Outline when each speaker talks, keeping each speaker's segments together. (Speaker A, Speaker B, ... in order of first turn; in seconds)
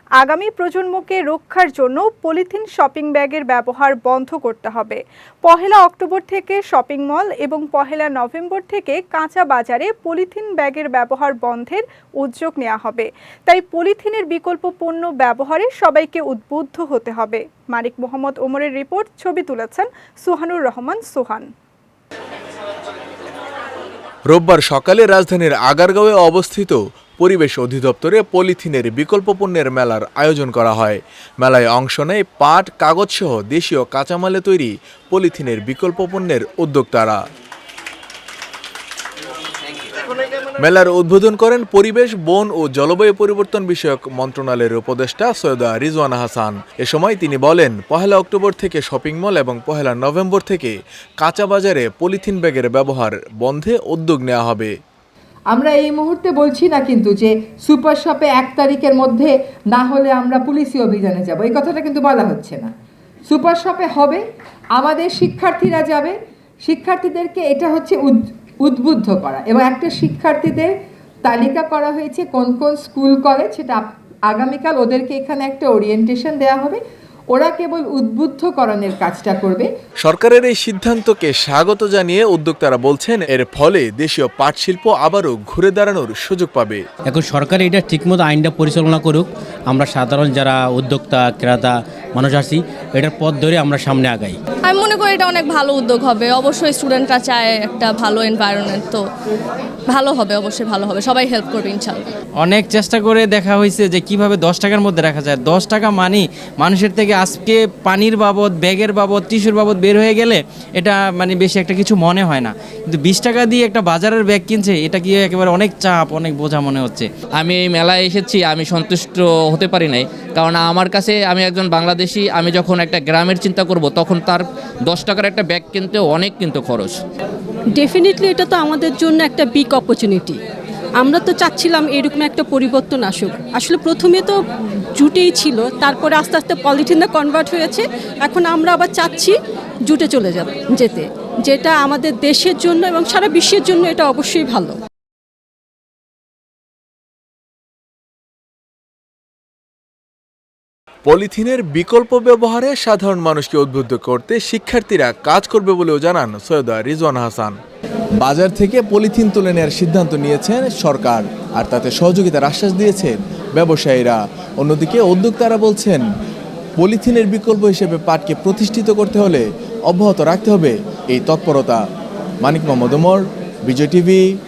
Speaker A: 0.2-21.5
Speaker B: 24.3-37.2, 40.6-54.8, 80.0-86.8, 151.1-157.6, 158.2-166.0, 166.8-171.8, 172.4-174.2
Speaker C: 55.5-62.7, 63.3-64.2, 64.8-70.7, 71.2-76.8, 77.3-79.7
Speaker D: 87.1-94.4
Speaker E: 94.6-99.0, 99.9-102.1
Speaker F: 102.4-117.1
Speaker G: 117.4-127.0
Speaker H: 127.8-130.4, 131.0-134.4, 135.0-139.3, 139.9-144.8